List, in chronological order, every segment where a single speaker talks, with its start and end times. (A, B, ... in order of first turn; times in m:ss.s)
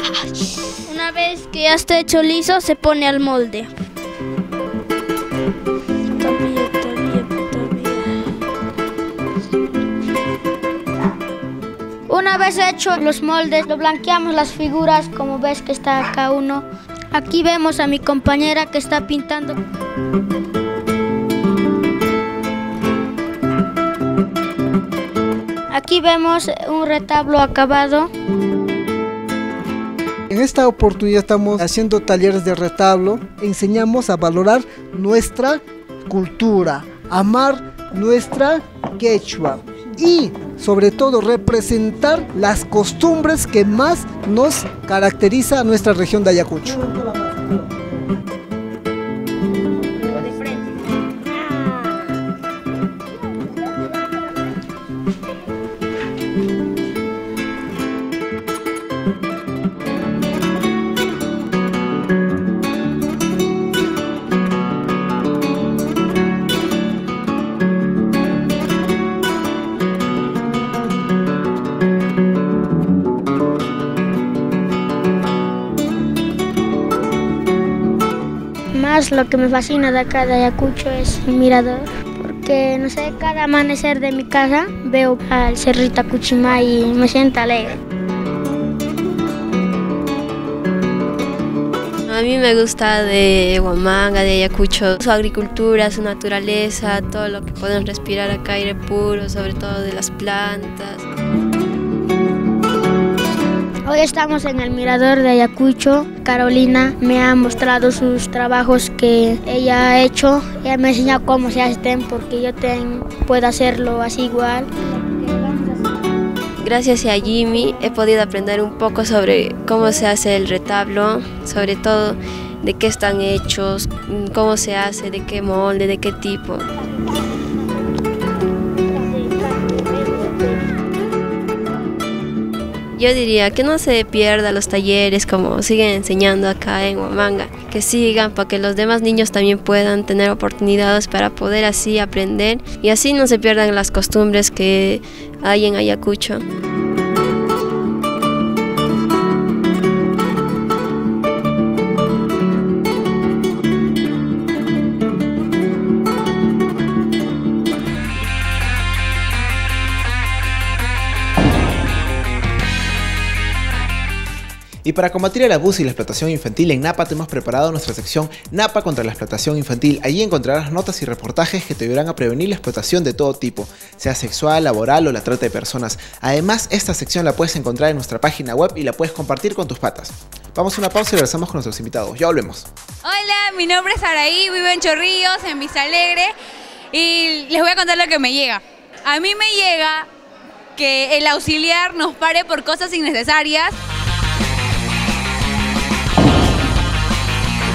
0:00.9-0:03.7 A
0:06.2-0:08.0 A
0:12.1-0:19.6 A
0:25.7-0:28.1 A
0:30.3-0:46.9 B
1:18.7-1:27.8 A
1:32.1-1:41.0 C
1:43.9-1:55.8 A
1:56.6-2:06.6 C
2:12.9-2:26.4 C
2:44.8-3:02.7 D
3:03.0-3:06.3 E
3:06.9-3:10.1 E
3:10.8-3:13.8 E